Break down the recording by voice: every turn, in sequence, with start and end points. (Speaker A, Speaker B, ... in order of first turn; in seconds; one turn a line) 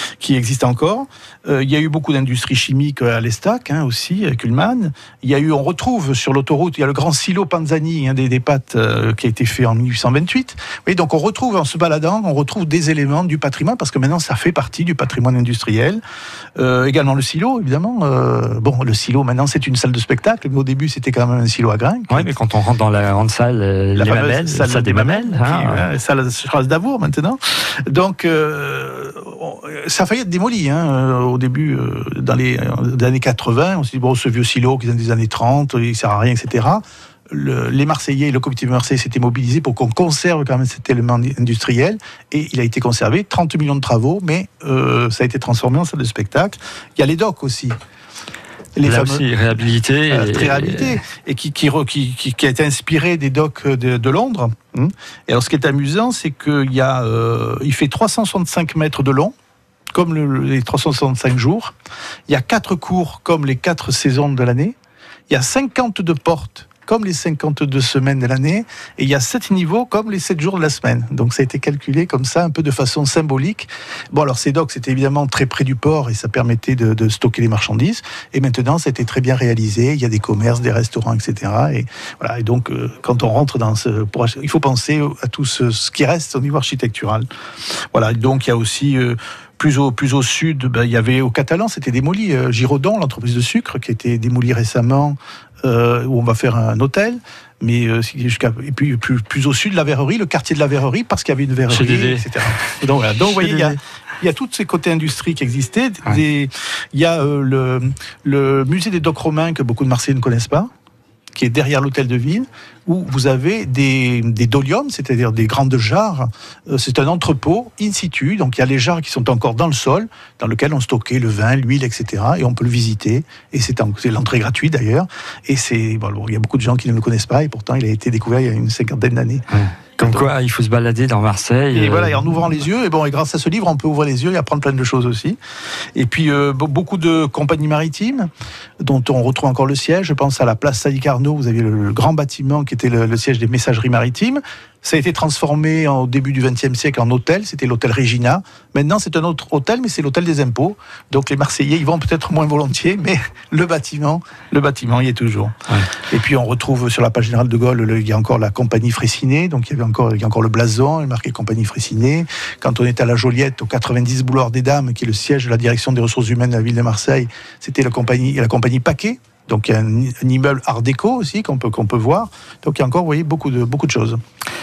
Speaker A: 0.2-16.0
Speaker A: 16.6-22.3
Speaker B: 22.1-25.8
Speaker A: 23.9-47.8
Speaker A: 48.8-49.3
Speaker B: 48.8-51.0
Speaker A: 50.1-59.3
Speaker A: 59.9-61.7
Speaker A: 62.3-64.8
Speaker A: 65.3-87.3
Speaker A: 87.9-110.7
Speaker B: 101.7-103.8
Speaker A: 111.3-129.4
Speaker B: 129.5-132.2
Speaker A: 130.0-130.3
Speaker A: 131.7-135.4
Speaker A: 135.9-138.3
Speaker A: 138.8-174.2